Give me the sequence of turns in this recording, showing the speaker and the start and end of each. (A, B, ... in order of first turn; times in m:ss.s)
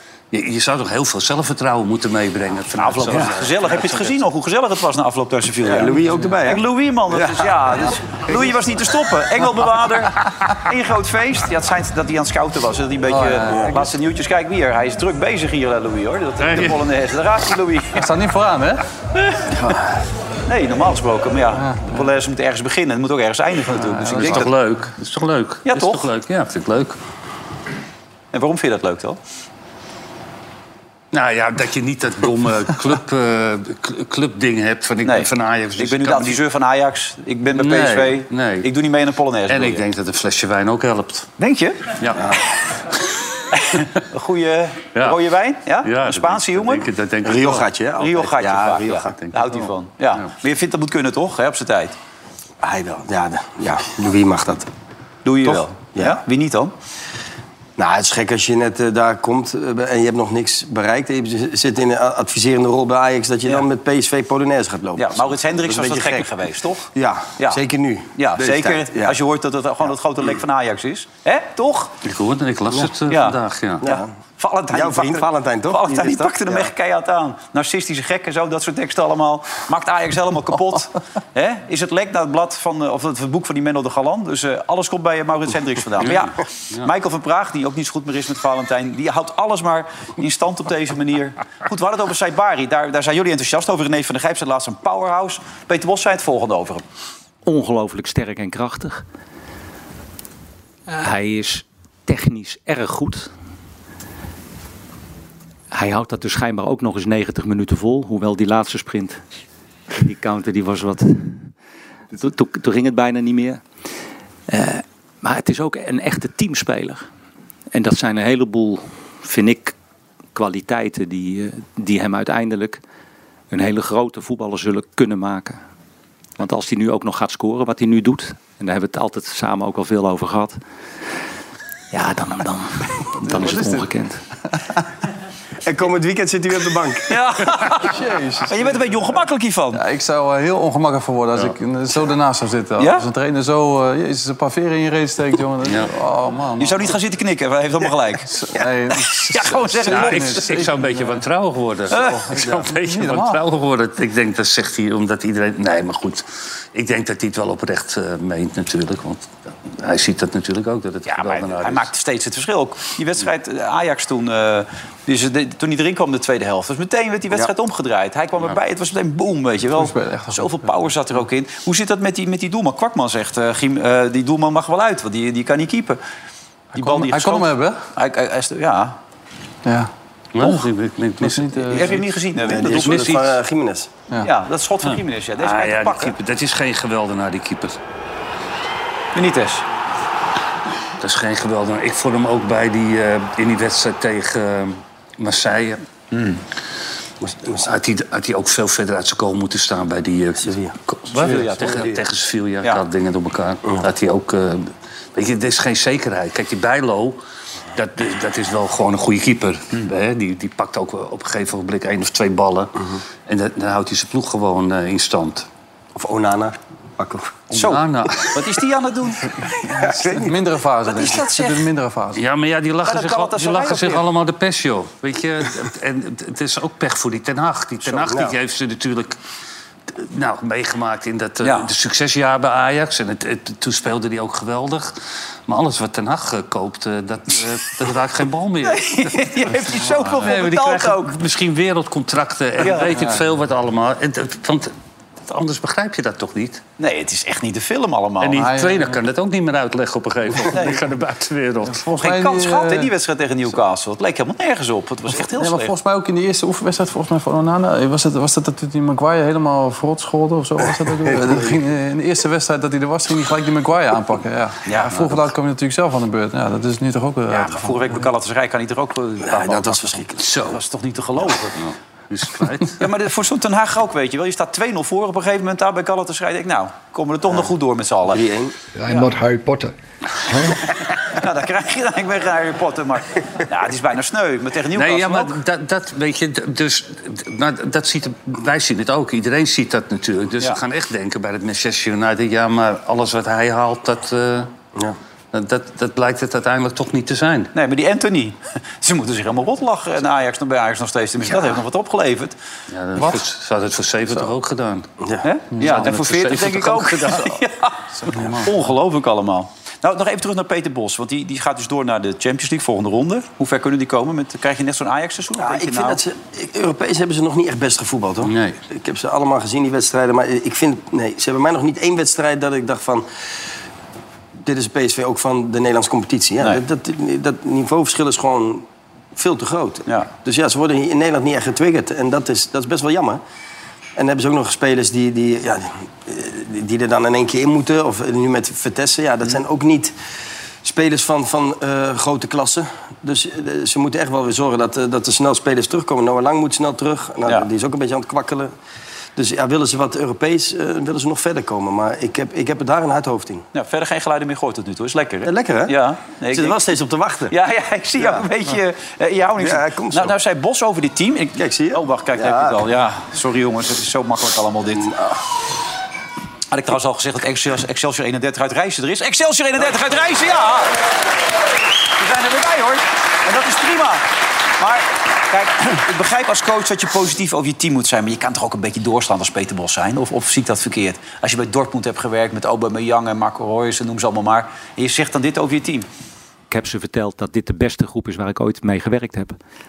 0:00.3-0:04.2 A
0:02.8-0:18.0 B
0:05.6-0:08.5 C
0:13.1-0:13.8 D
0:13.5-0:13.8 C
0:16.4-0:16.8 A
0:18.0-0:18.8 D
0:20.5-0:24.5 B
0:21.6-0:22.1 D
0:23.7-0:24.5 D
0:24.0-0:27.0 A
0:25.6-0:26.1 B
0:28.3-0:29.2 B
0:31.1-0:36.4 A
0:35.0-0:39.8 B
0:37.5-0:38.7 A
0:39.5-0:41.3 A
0:41.4-0:41.9 B
0:42.0-0:42.4 A
0:43.6-0:46.9 B
0:45.8-0:47.7 A
0:47.2-0:49.2 C
0:48.0-0:52.0 B
0:49.2-0:50.2 A
0:52.6-0:54.7 C
0:55.2-0:56.7 B
0:55.4-0:56.2 C
0:57.8-1:06.3 C
1:05.0-1:06.9 B
1:07.0-1:09.2 C
1:08.2-1:11.9 B
1:12.0-1:13.9 A
1:13.1-1:36.8 B
1:13.8-1:14.1 C
1:14.7-1:16.7 C
1:26.0-1:26.9 A
1:37.4-1:39.0 E
1:40.9-1:43.3 E
1:45.7-1:49.2 E
1:49.9-1:51.5 E
1:52.1-1:53.6 E
1:54.5-1:57.0 E
1:57.7-1:59.8 E
2:00.4-2:02.8 E
2:03.5-2:05.6 E
2:06.4-2:10.6 E
2:11.9-2:14.2 E
2:13.2-2:13.9 D
2:15.6-2:17.2 C
2:17.1-2:19.8 B
2:17.7-2:19.2 D
2:19.7-2:26.9 D
2:22.8-2:23.0 B
2:25.6-2:25.9 A
2:26.6-2:28.5 B
2:28.3-2:31.2 D
2:29.1-2:30.6 B
2:29.8-2:41.9 A
2:31.9-2:32.4 B
2:31.9-2:33.4 D
2:41.1-2:56.0 B
2:49.7-2:50.7 D
2:56.7-2:59.0 B
2:56.8-2:57.8 D
2:59.6-2:59.9 D
3:00.3-3:03.4 A
3:01.2-3:02.0 D
3:01.7-3:03.2 B
3:02.4-3:03.9 C
3:04.2-3:06.2 B
3:04.8-3:07.8 A
3:09.2-3:09.6 B
3:11.0-3:15.8 A
3:16.1-3:16.4 B
3:17.2-3:17.8 C
3:17.7-3:27.2 A
3:20.4-3:22.0 C
3:21.1-3:22.0 B
3:27.7-3:35.5 A
3:36.0-3:37.4 C
3:37.5-3:38.4 A
3:37.5-3:39.8 B
3:39.7-3:41.1 C
3:40.2-3:42.2 D
3:40.9-3:41.7 B
3:42.2-3:49.2 A
3:42.9-3:44.1 B
3:47.9-3:48.4 C
3:49.9-3:54.9 A
3:51.4-3:51.7 B
3:55.5-4:04.7 A
3:58.6-4:01.1 B
4:02.6-4:03.1 B
4:05.3-4:06.6 A
4:06.8-4:08.5 B
4:08.2-4:11.9 A
4:08.4-4:09.0 D
4:10.5-4:10.8 B
4:11.7-4:12.9 D
4:12.0-4:15.7 B
4:15.3-4:27.8 D
4:21.1-4:21.4 C
4:24.7-4:25.0 B
4:27.3-4:29.8 B
4:29.2-4:30.4 C
4:29.3-4:29.6 A
4:30.2-4:30.6 A
4:30.4-4:31.6 B
4:31.6-4:32.8 A
4:32.8-4:38.2 B
4:38.1-4:38.6 C
4:38.8-4:39.1 B
4:41.1-4:45.4 B
4:44.7-4:54.5 A
4:55.3-4:57.5 A
4:57.5-5:02.4 B
5:02.7-5:04.9 A
5:05.0-5:05.3 C
5:05.2-5:16.0 B
5:05.6-5:07.4 A
5:08.1-5:08.5 D
5:08.1-5:08.4 A
5:15.4-5:23.1 C
5:18.2-5:18.6 A
5:24.4-5:33.2 C
5:34.0-5:39.9 C
5:40.6-5:48.5 C
5:49.2-5:53.5 C
5:53.5-5:56.6 B
5:55.2-5:55.8 C
5:56.3-5:57.4 C
5:57.3-6:04.9 B
5:58.0-5:58.3 C
5:59.4-6:00.2 C
6:01.4-6:02.6 C
6:04.7-6:05.2 C
6:06.5-6:10.7 B
6:12.0-6:14.0 B
6:14.6-6:25.9 B
6:26.5-6:29.4 E